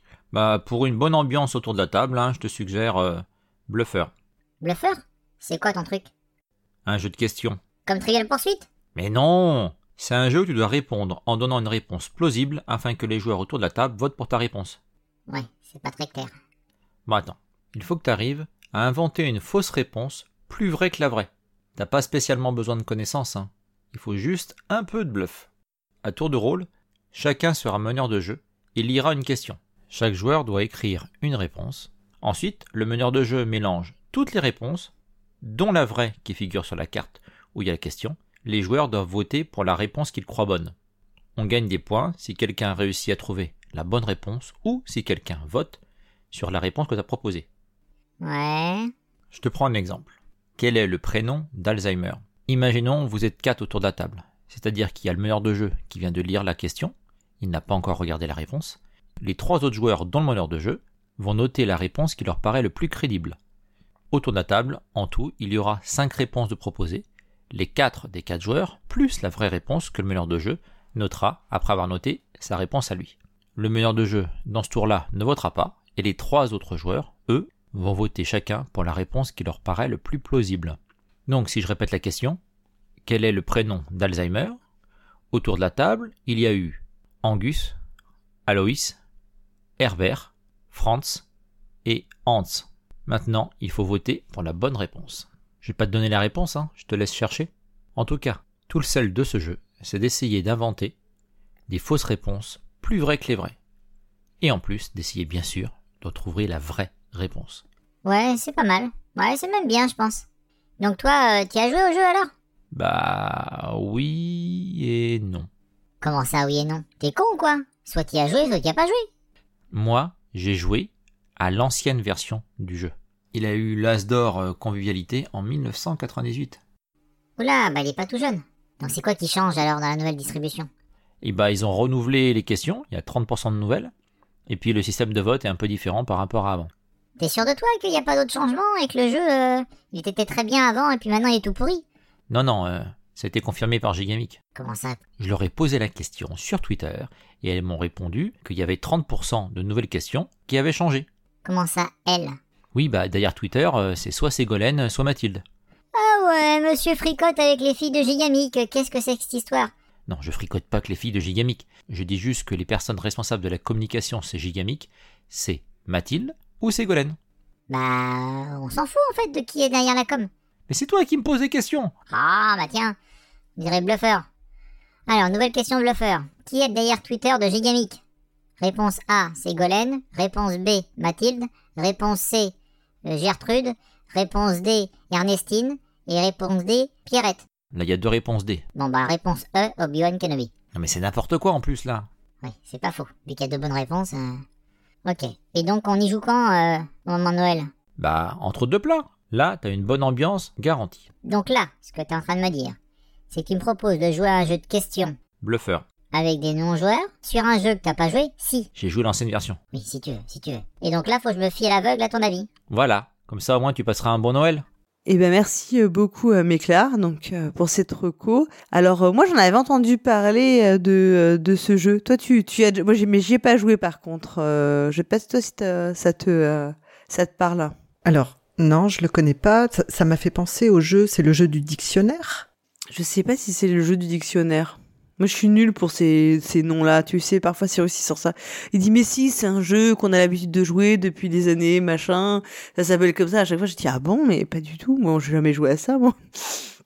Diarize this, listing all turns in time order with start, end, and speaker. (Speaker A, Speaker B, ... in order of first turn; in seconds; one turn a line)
Speaker A: 0.3-4.1
Speaker B: 4.6-6.1
Speaker A: 6.8-7.6
Speaker B: 7.9-8.7
Speaker A: 8.9-14.8
Speaker B: 15.3-16.3
Speaker A: 17.1-25.5
Speaker A: 26.0-34.9
Speaker A: 35.4-40.7
Speaker A: 41.4-45.8
Speaker A: 46.3-47.5
Speaker B: 48.2-48.9
Speaker A: 49.3-63.4
Speaker A: 64.1-82.4
Speaker A: 83.0-84.6
Speaker A: 85.3-87.8
Speaker A: 88.5-89.0
Speaker A: 89.8-91.2
Speaker A: 91.8-101.0
Speaker A: 101.7-103.5
Speaker A: 104.4-107.6
Speaker B: 108.0-110.2
Speaker B: 110.8-112.3
Speaker A: 112.7-115.5
Speaker B: 116.0-119.1
Speaker A: 119.7-126.6
Speaker B: 127.4-130.7
Speaker A: 131.2-133.9
Speaker A: 134.5-136.7
Speaker B: 137.2-141.8
Speaker A: 142.3-144.4
Speaker B: 144.6-145.0
Speaker A: 145.2-151.1
Speaker B: 151.4-152.4
Speaker A: 152.7-155.4
Speaker B: 155.9-159.7
Speaker A: 160.1-167.2
Speaker B: 167.7-170.3
Speaker A: 170.7-171.9
Speaker B: 172.1-173.0
Speaker B: 173.6-174.3
Speaker B: 175.1-178.0
Speaker B: 178.6-182.5
Speaker B: 183.1-187.4
Speaker A: 187.7-188.6
Speaker B: 188.8-190.5
Speaker A: 190.7-192.1
Speaker B: 192.4-194.4
Speaker B: 195.1-197.7
Speaker A: 198.0-201.1
Speaker B: 201.2-202.8
Speaker B: 203.3-205.2
Speaker A: 205.4-205.8
Speaker B: 206.1-208.7
Speaker A: 208.8-209.6
Speaker B: 209.7-212.5
Speaker A: 212.7-214.7
Speaker C: 215.1-227.7
Speaker D: 228.0-232.5
Speaker C: 232.9-246.7